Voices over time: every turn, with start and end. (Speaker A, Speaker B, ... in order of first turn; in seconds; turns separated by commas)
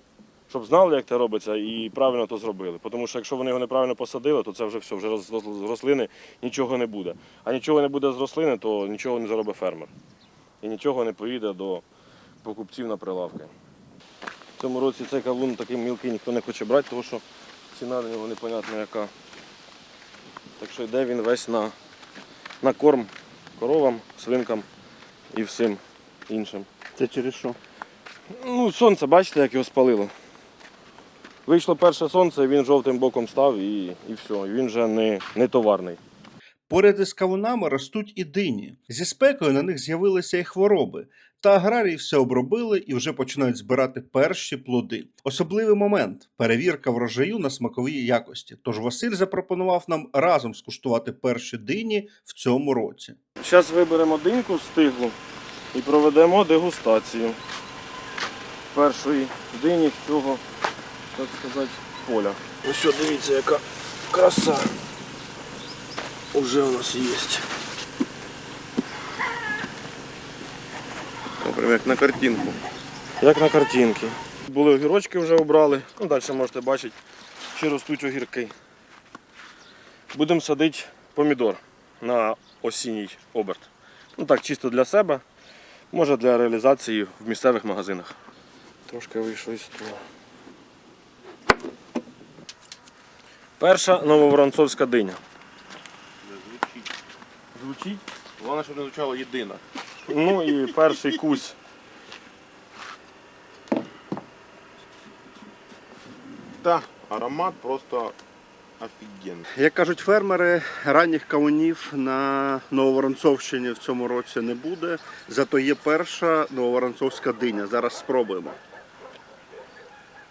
Speaker A: 0.5-9.9, Speaker A: 10.6-11.8, Speaker A: 12.4-13.5, Speaker A: 14.6-19.1, Speaker A: 20.6-21.7, Speaker A: 22.6-24.7, Speaker A: 25.3-26.7, Speaker B: 27.0-27.6, Speaker A: 28.4-30.1, Speaker A: 31.5-36.0, Speaker B: 36.7-53.2, Speaker A: 53.4-55.2, Speaker A: 55.7-57.4, Speaker A: 58.7-60.4, Speaker A: 61.1-64.8, Speaker A: 66.3-67.5, Speaker A: 71.4-72.6, Speaker A: 73.2-77.0, Speaker A: 77.5-78.5, Speaker A: 80.1-85.2, Speaker A: 85.9-88.1, Speaker A: 88.9-90.0, Speaker A: 93.6-95.2, Speaker C: 96.2-96.9, Speaker A: 97.5-98.0, Speaker C: 98.4-99.6, Speaker A: 100.0-101.6, Speaker C: 106.6-108.2, Speaker C: 108.8-109.5, Speaker B: 109.5-118.6